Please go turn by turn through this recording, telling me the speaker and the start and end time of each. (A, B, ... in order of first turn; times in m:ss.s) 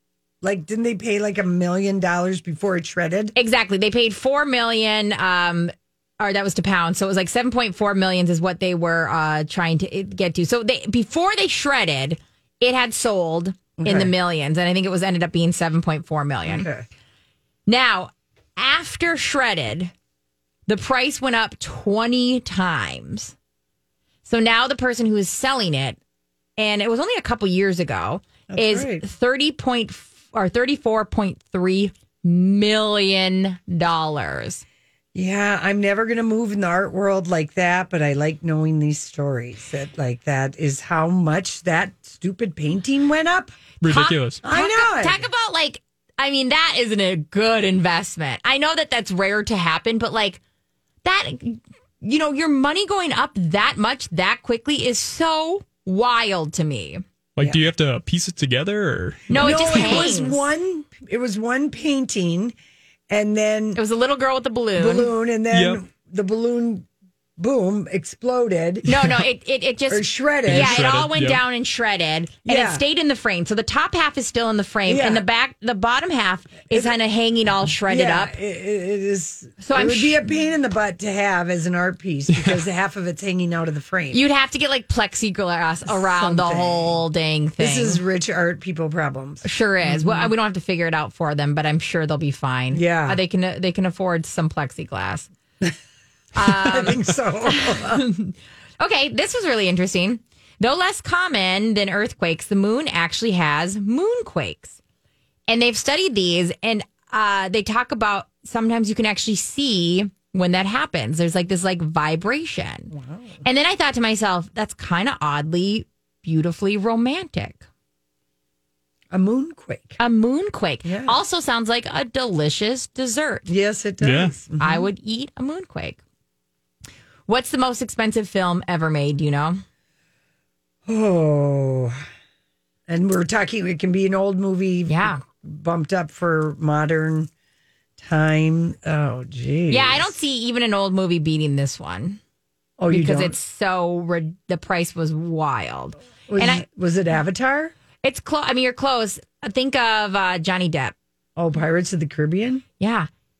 0:00.4-0:03.3 A
0:03.3-0:16.7 B
0:13.8-0:14.1 A
0:16.4-0:16.8 A
0:17.7-0:19.9 B
0:20.7-0:23.3 B
0:24.2-0:26.0 B
0:26.6-0:34.6 B
0:28.5-0:29.0 A
0:35.1-0:43.5 A
0:43.8-0:44.4 C
0:43.8-0:50.4 B
0:44.4-0:45.2 A
0:51.0-0:57.0 B
0:57.4-1:00.1 C
0:59.3-1:00.4 B
0:59.3-1:02.5 A
1:03.1-1:03.8 A
1:03.8-1:05.1 B
1:04.8-1:06.9 A
1:05.5-1:05.8 C
1:07.4-1:09.0 A
1:08.8-1:18.3 B
1:09.9-1:10.8 A
1:10.5-1:11.4 C
1:12.4-1:12.8 A
1:14.8-1:15.2 A
1:16.7-1:16.9 A
1:17.8-1:24.2 A
1:19.6-1:20.2 B
1:24.1-1:28.0 B
1:25.8-1:27.0 A
1:27.6-1:30.3 A
1:29.4-1:35.3 B
1:32.7-1:33.2 A
1:36.3-1:44.8 B
1:36.4-1:38.0 A
1:45.5-1:52.9 B
1:52.9-1:53.4 A
1:53.4-1:57.6 B
1:59.1-2:00.0 A
2:00.0-2:03.5 B
2:00.8-2:01.2 A
2:03.5-2:04.9 A
2:04.0-2:04.3 C
2:04.6-2:06.0 B
2:07.3-2:09.6 B
2:10.8-2:12.0 A
2:12.9-2:17.3 A
2:14.9-2:15.2 B
2:18.0-2:20.1 A
2:19.7-2:22.2 B
2:22.8-2:23.4 A
2:22.9-2:26.6 B
2:26.3-2:27.7 A
2:28.0-2:30.9 B
2:31.4-2:32.6 A
2:32.8-2:33.1 B